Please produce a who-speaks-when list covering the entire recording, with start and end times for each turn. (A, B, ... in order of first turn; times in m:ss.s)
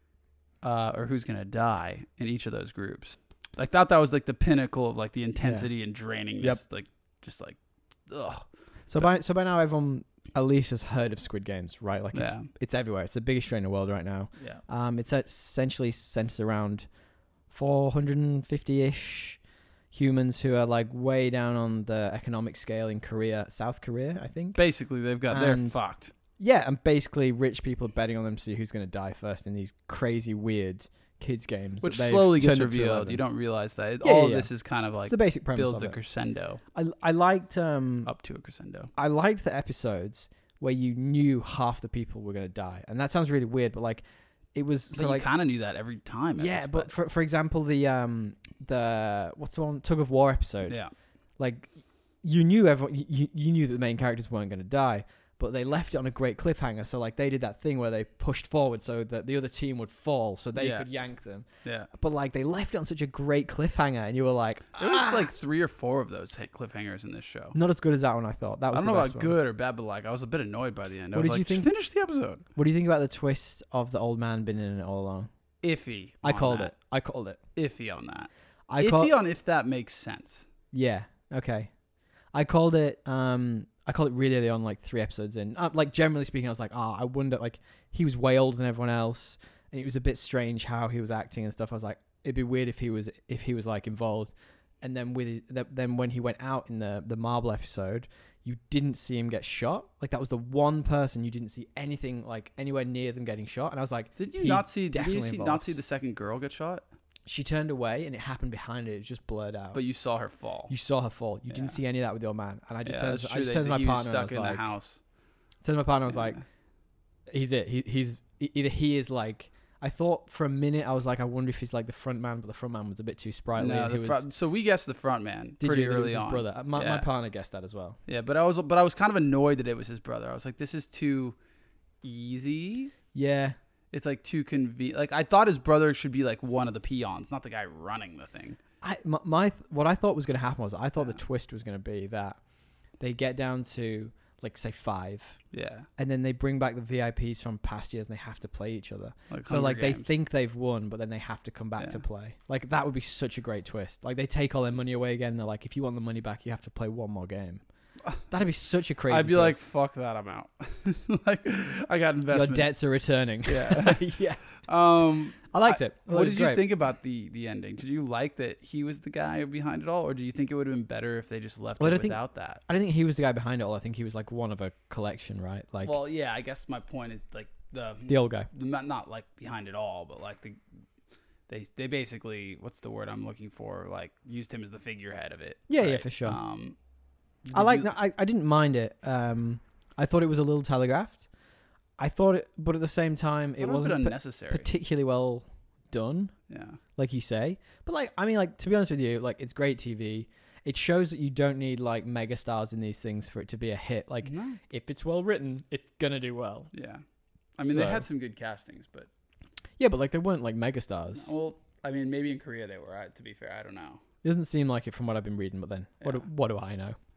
0:00.6-0:09.1 A
0:05.4-0:05.7 B
0:08.9-0:16.9 B
0:12.1-0:12.5 A
0:17.5-0:19.4 B
0:19.9-0:24.6 B
0:24.6-0:26.1 A
0:25.3-0:25.8 B
0:26.4-0:33.2 B
0:31.8-0:36.6 A
0:34.0-0:34.5 B
0:35.0-0:36.0 B
0:36.7-0:38.1 B
0:38.0-0:38.9 A
0:38.9-0:44.0 B
0:44.5-0:45.3 B
0:44.9-0:46.9 A
0:46.4-0:50.8 B
0:51.4-1:05.3 B
1:00.6-1:00.9 A
1:01.6-1:01.9 A
1:04.8-1:07.6 A
1:07.5-1:09.3 B
1:08.7-1:12.4 A
1:11.1-1:11.7 B
1:12.5-1:15.3 B
1:15.6-1:16.7 A
1:16.2-1:17.4 B
1:17.5-1:20.5 A
1:18.7-1:19.1 B
1:20.7-1:21.7 B
1:22.3-1:45.8 B
1:44.2-1:46.8 A
1:47.2-1:49.8 B
1:49.7-1:50.7 A
1:50.7-1:54.7 B
1:51.5-1:51.8 A
1:52.8-1:55.0 A
1:55.6-1:56.4 B
1:57.3-2:04.2 B
2:03.6-2:07.1 A
2:05.6-2:08.0 B
2:08.1-2:11.4 A
2:12.0-2:12.9 A
2:13.1-2:13.6 B
2:13.9-2:18.6 A
2:18.8-2:22.4 B
2:23.0-2:25.4 B
2:25.5-2:25.9 A
2:26.0-2:37.6 B
2:29.3-2:30.1 A
2:38.3-2:39.6 B
2:39.1-2:42.8 A
2:42.3-2:44.4 B
2:43.4-2:44.0 A
2:44.6-2:52.6 A
2:45.5-2:46.6 B
2:51.8-2:56.0 B
2:55.8-3:00.6 A
2:58.1-2:58.5 B
3:01.5-3:06.8 A
3:05.7-3:06.4 B
3:07.4-3:07.9 A
3:07.5-3:11.2 B
3:12.0-3:16.3 B
3:13.6-3:14.7 A
3:16.5-3:16.8 A
3:17.0-3:26.7 B
3:24.2-3:24.6 A
3:26.7-3:27.0 A
3:27.6-3:29.1 A
3:27.6-3:28.0 B
3:29.8-3:31.3 B
3:31.1-3:34.0 A
3:34.2-3:37.0 B